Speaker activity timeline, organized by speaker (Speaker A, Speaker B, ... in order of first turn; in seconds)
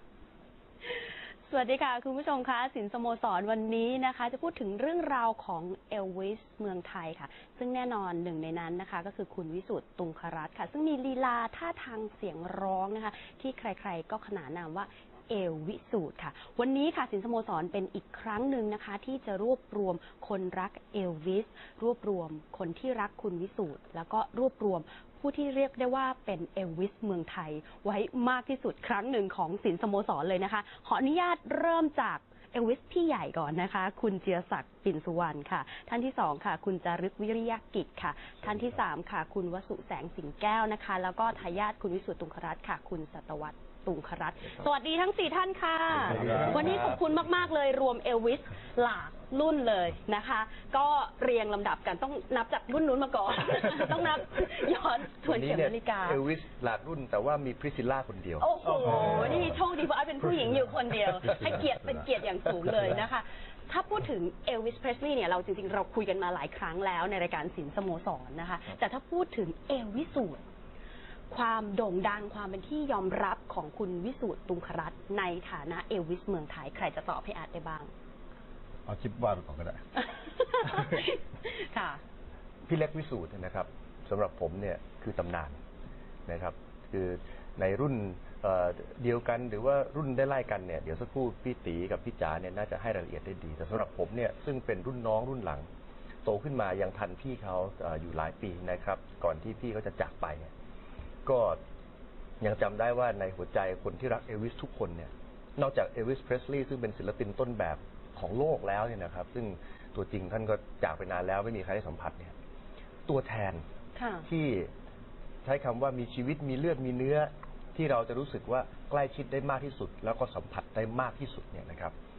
Speaker A: 1.5-56.2, 58.4-70.4, 71.3-77.9, 80.0-82.0, 114.0-114.3
Speaker B: 46.0-47.0, 55.2-59.3, 82.7-85.6, 86.3-95.7, 96.2-100.5, 101.2-101.6, 102.4-112.3, 113.1-113.6, 114.3-114.7, 115.4-121.9
Speaker C: 46.0-46.9, 58.9-59.4, 78.9-79.8